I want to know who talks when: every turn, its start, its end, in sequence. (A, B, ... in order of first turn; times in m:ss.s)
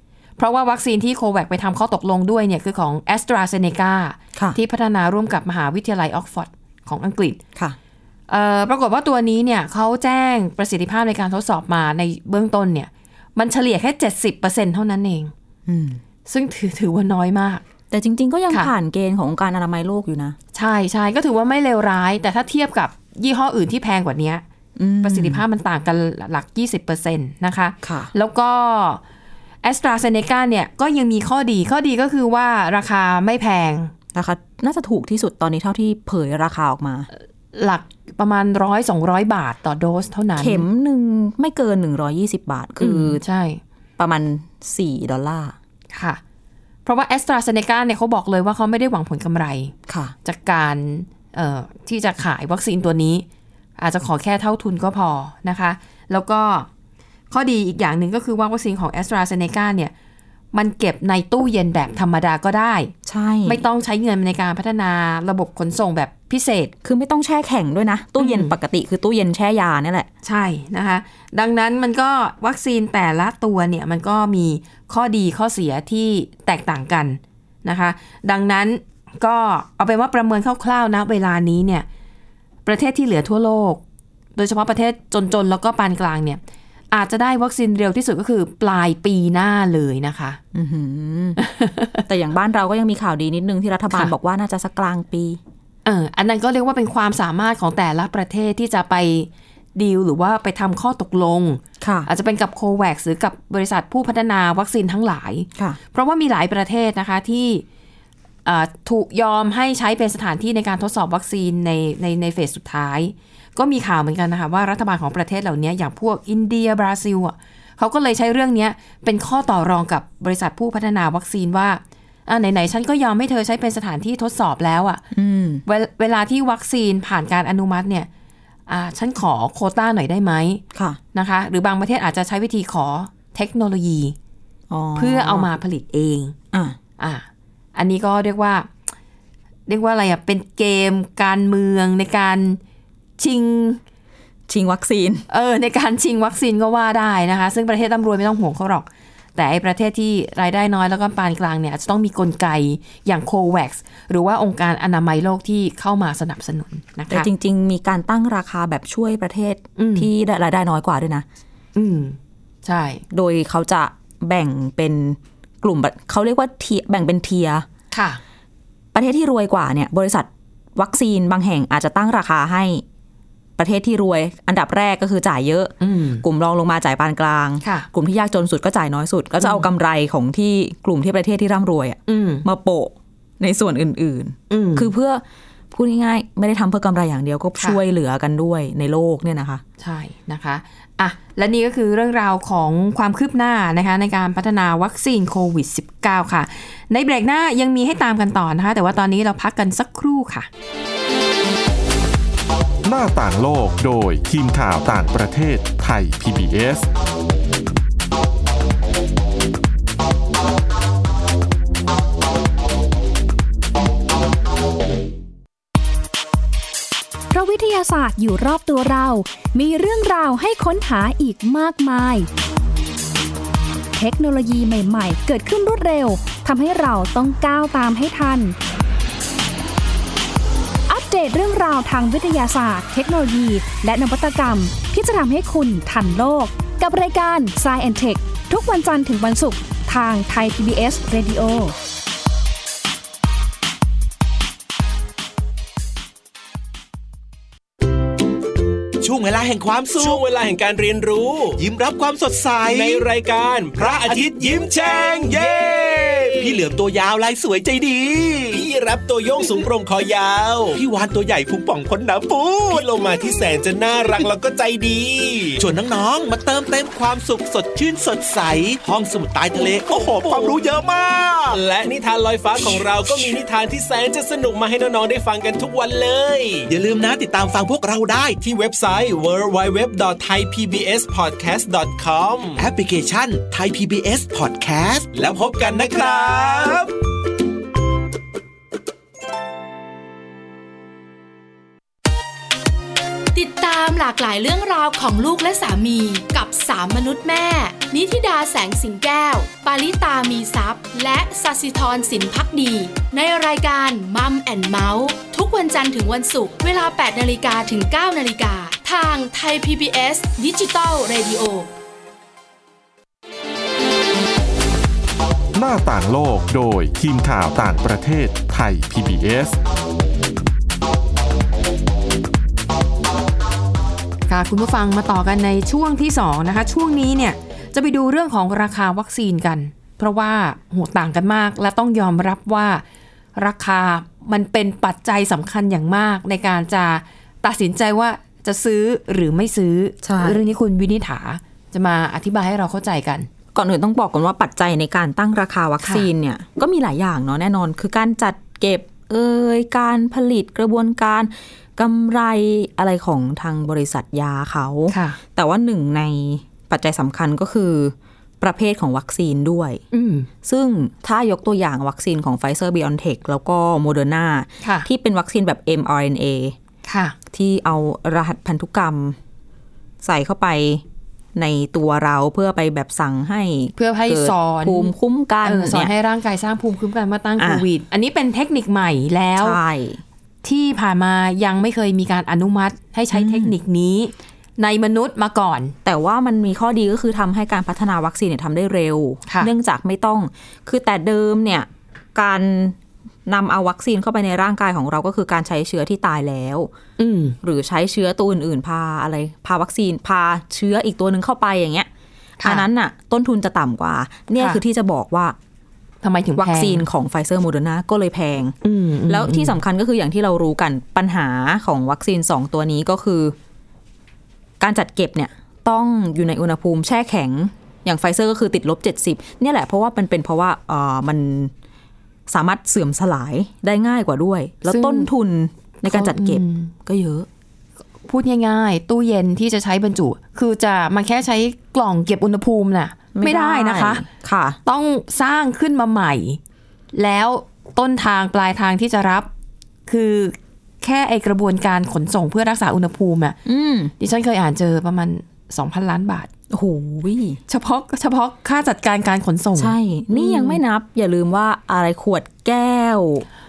0:00.4-0:07.4 A
0:08.3-0:15.3 A
0:15.7-0:16.0 B
0:16.3-0:17.6 A
0:17.9-0:20.4 B
0:20.5-0:24.4 A
0:24.8-0:25.4 B
0:25.0-0:29.0 A
0:27.8-0:28.1 B
0:29.6-0:33.9 A
0:34.1-0:37.1 B
0:37.5-0:40.6 A
0:40.4-0:43.2 B
0:42.8-0:43.6 A
0:44.0-0:45.6 B
0:45.9-0:46.2 A
0:46.8-0:49.7 A
0:49.9-0:50.1 B
0:50.2-0:53.3 A
0:53.8-0:56.7 A
0:57.3-0:59.9 A
1:00.5-1:02.9 A
1:03.1-1:03.6 B
1:03.5-1:06.7 A
1:06.8-1:10.1 B
1:08.2-1:08.5 A
1:10.2-1:21.9 A
1:22.7-1:23.8 A
1:24.4-1:26.4 A
1:26.9-1:30.4 A
1:30.5-1:31.4 B
1:31.4-1:32.0 A
1:32.1-1:35.4 B
1:35.8-1:47.6 A
1:41.8-1:42.1 B
1:48.4-2:05.0 A
2:05.1-2:05.6 B
2:05.7-2:08.1 A
2:08.7-2:10.6 A
2:10.7-2:11.0 B
2:11.1-2:14.2 A
2:14.7-2:15.5 B
2:15.0-2:16.4 A
2:16.5-2:16.8 B
2:17.0-2:18.7 A
2:19.7-2:22.6 A
2:23.2-2:23.8 A
2:24.5-2:25.3 B
2:25.3-2:37.3 A
2:37.1-2:41.3 B
2:39.8-2:40.1 A
2:41.8-2:43.0 A
2:43.1-2:47.7 B
2:47.9-2:48.2 A
2:48.9-2:52.8 B
2:53.6-3:09.6 B
2:55.8-2:56.2 A
2:57.6-2:57.9 A
2:59.4-2:59.7 A
3:02.1-3:02.4 A
3:04.5-3:04.9 A
3:09.8-3:20.5 A
3:22.8-3:26.9 C
3:37.3-3:42.3 D
3:44.0-3:48.6 D
3:50.9-4:01.8 D
4:09.0-4:10.2 E
4:09.9-4:11.6 F
4:11.6-4:13.1 E
4:12.6-4:16.7 F
4:13.8-4:18.6 E
4:18.5-4:20.8 F
4:20.7-4:22.9 E
4:22.7-4:25.6 F
4:25.6-4:31.6 E
4:29.6-4:30.7 F
4:31.5-4:36.7 F
4:36.7-4:38.4 E
4:38.4-4:42.6 F
4:42.6-4:46.8 E
4:45.1-4:46.9 F
4:53.3-5:11.7 G
5:15.6-5:19.6 C
5:24.3-5:32.8 A
5:33.4-5:43.3 A
5:40.0-5:40.4 B
5:43.5-5:59.8 B
5:54.9-5:55.2 A
5:59.9-6:00.3 A
6:00.4-6:06.6 B
6:04.6-6:04.9 A
6:06.9-6:07.2 A
6:07.3-6:09.2 B
6:10.0-6:10.8 B
6:11.4-6:15.9 B
6:13.8-6:14.9 A
6:15.4-6:19.6 A
6:17.4-6:17.7 B
6:19.4-6:20.0 B
6:20.4-6:25.7 A
6:23.1-6:23.6 B
6:25.8-6:36.7 B
6:29.3-6:29.5 A
6:37.0-6:37.4 A
6:37.4-6:41.9 B
6:42.4-6:42.6 A
6:42.4-6:45.4 B
6:46.0-6:46.9 A
6:46.4-6:48.6 B
6:48.6-6:49.6 A
6:49.1-6:53.4 B
6:54.6-7:01.5 B
7:02.3-7:07.3 B
7:04.7-7:05.1 A
7:05.8-7:06.7 A
7:08.0-7:14.1 A
7:13.1-7:14.6 B
7:14.6-7:16.4 A
7:16.9-7:19.3 A
7:19.9-7:23.4 A
7:23.4-7:23.9 B
7:24.0-7:26.3 A
7:26.5-7:27.4 B
7:27.5-7:30.6 A
7:29.6-7:33.3 B